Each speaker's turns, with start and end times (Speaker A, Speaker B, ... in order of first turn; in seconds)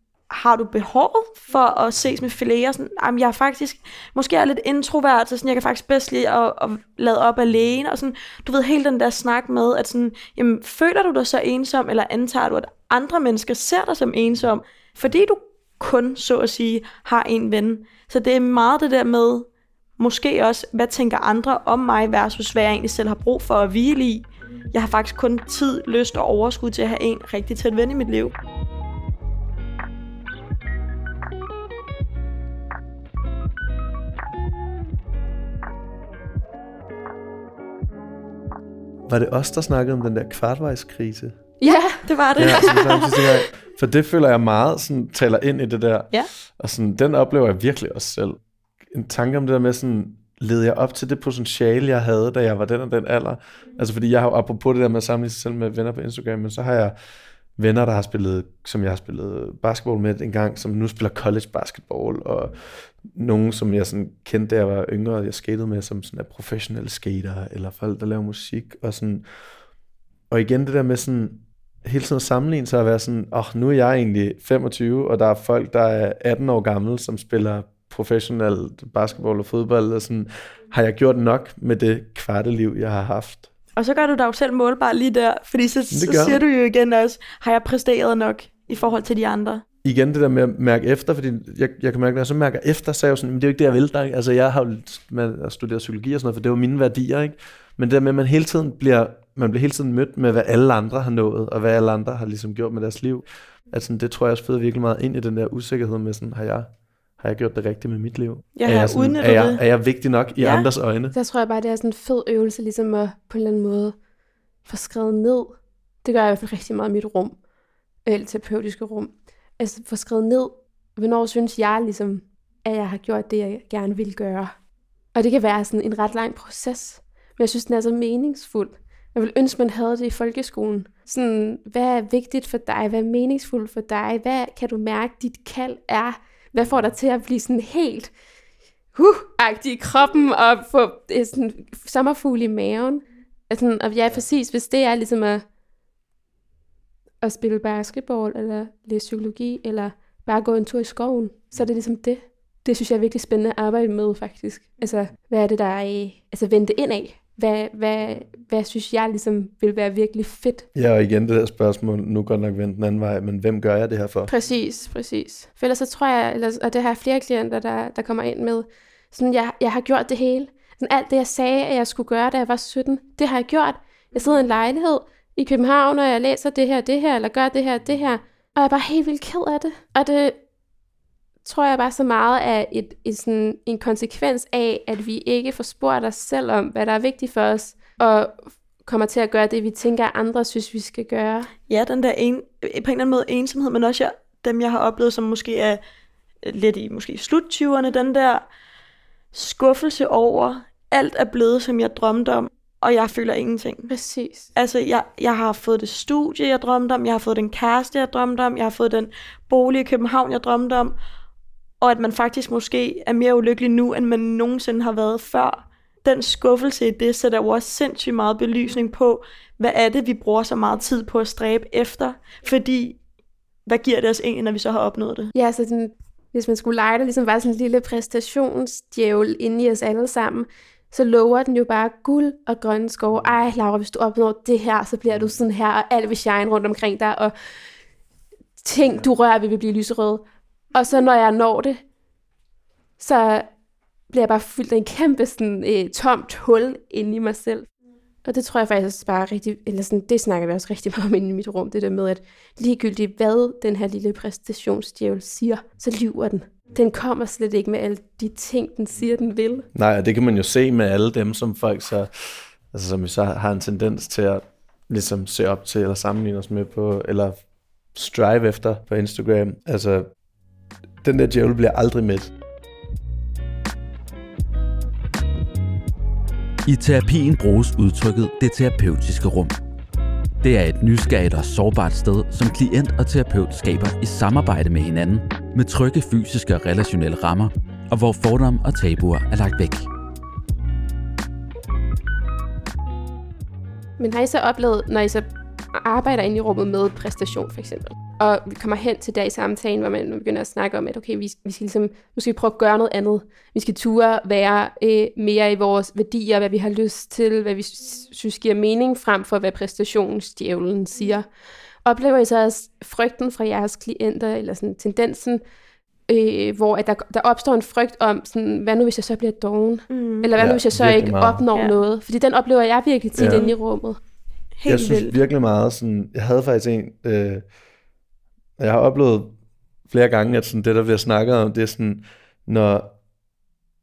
Speaker A: 0.3-28.3, 42.1-43.3, 83.8-89.6, 108.6-109.6, 110.4-110.7, 191.7-195.8, 196.4-198.4, 199.3-203.9, 204.6-210.9, 211.8-223.0, 223.7-225.3, 319.9-320.3, 323.2-323.5, 324.6-325.2
Speaker B: 39.1-41.4, 42.4-57.0, 57.6-69.2, 70.3-83.5, 85.9-86.4, 89.8-111.2, 160.8-164.3, 259.7-267.4, 267.9-270.1, 271.0-272.3, 320.4-321.4, 323.2-323.4, 324.7-327.4, 328.6-329.3, 329.9-332.9
Speaker C: 41.6-42.8, 111.1-114.0, 114.7-117.4, 118.0-124.5, 125.2-138.1, 138.9-145.4, 147.2-160.7, 164.3-180.4, 181.4-191.5, 203.9-204.5, 225.3-237.3, 238.6-240.2, 240.8-241.8, 243.0-243.5, 244.1-247.7, 248.2-259.6, 294.0-311.3, 311.9-315.4, 316.1-324.0
Speaker D: 276.7-279.5, 280.4-289.9